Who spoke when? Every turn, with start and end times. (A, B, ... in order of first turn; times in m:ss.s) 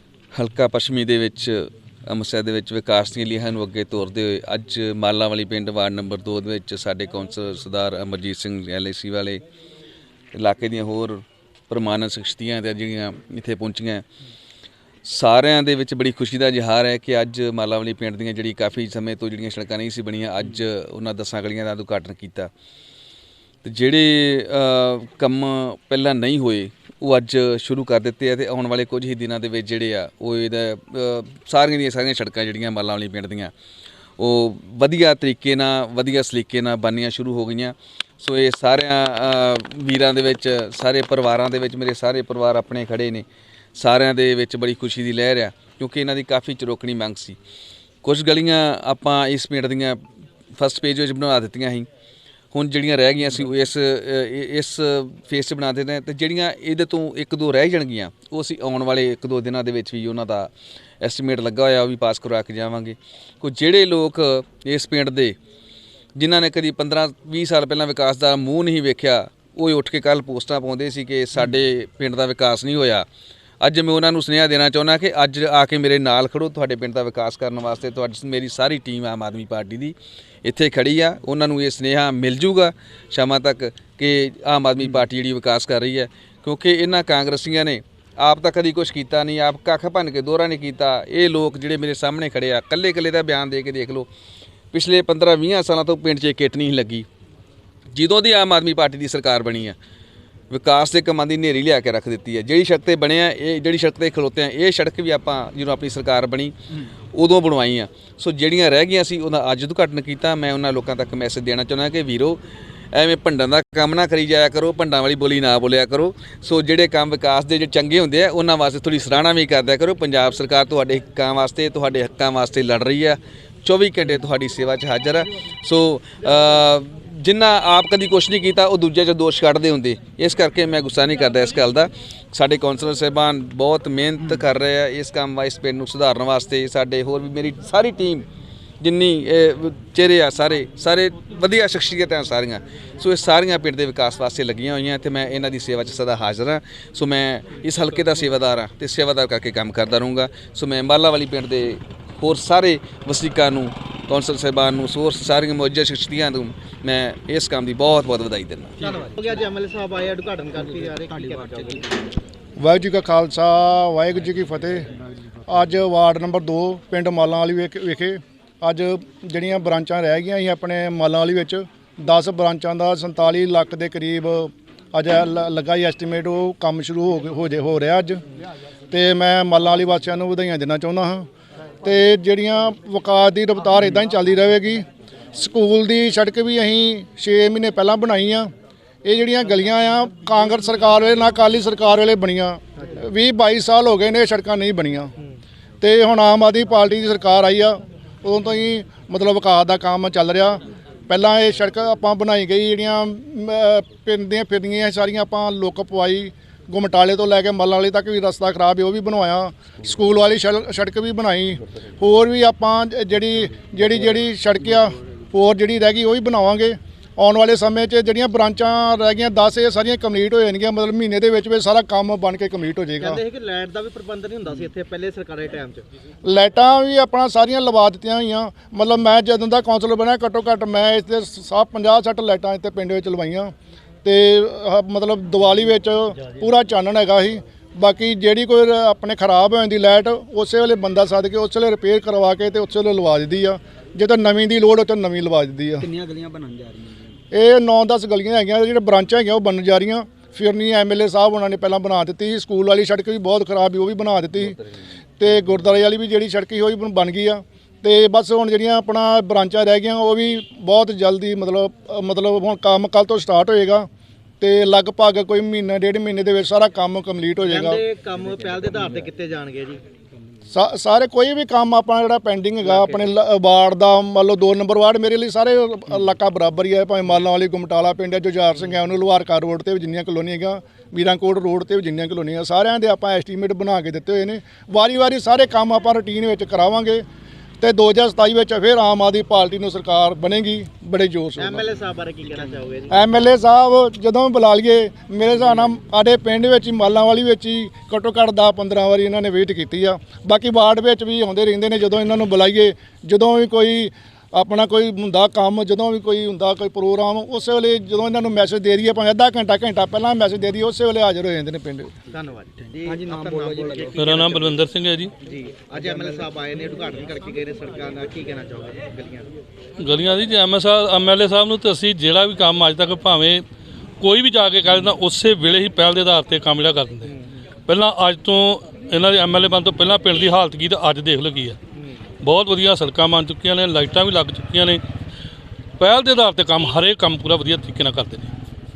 0:00.3-0:09.4 A
0:10.3-0:14.0 A
0:15.0-0:22.5 A
0:23.6-0:33.5 A
0:34.2-0:47.4 A
0:48.0-0:50.0 A
0:50.6-0:51.9 A
0:52.5-1:00.5 A
1:01.0-1:05.4 A
1:06.2-1:13.1 A
1:13.6-1:34.1 A
1:34.7-1:37.1 A
1:37.9-1:39.8 A
1:40.5-1:46.5 A
1:47.2-1:52.4 A
1:52.9-2:18.3 A
2:18.8-2:38.7 A
2:38.8-2:39.2 B
2:38.8-2:42.1 C
2:40.6-2:41.9 B
2:42.6-2:44.9 D
2:45.5-2:58.2 D
2:58.9-3:01.3 D
3:01.8-3:08.5 D
3:09.0-3:15.1 D
3:15.8-3:43.2 D
3:43.0-3:45.8 C
3:46.2-3:53.5 D
3:54.0-4:05.9 D
4:05.8-4:07.2 B
4:07.3-4:14.6 D
4:15.2-4:23.9 D
4:24.4-4:27.8 D
4:27.4-4:29.8 C
4:28.2-4:28.9 B
4:30.5-4:47.0 D
4:32.6-4:33.1 C
4:47.6-4:51.7 D
4:51.4-4:53.1 C
4:52.9-5:11.9 D
5:12.1-5:14.6 C
5:12.7-5:14.0 B
5:14.0-5:15.1 E
5:15.2-5:19.3 C
5:15.8-5:16.2 B
5:19.8-5:23.4 E
5:24.0-5:27.1 E
5:27.7-5:31.6 E
5:32.2-5:34.8 E
5:35.8-5:38.3 E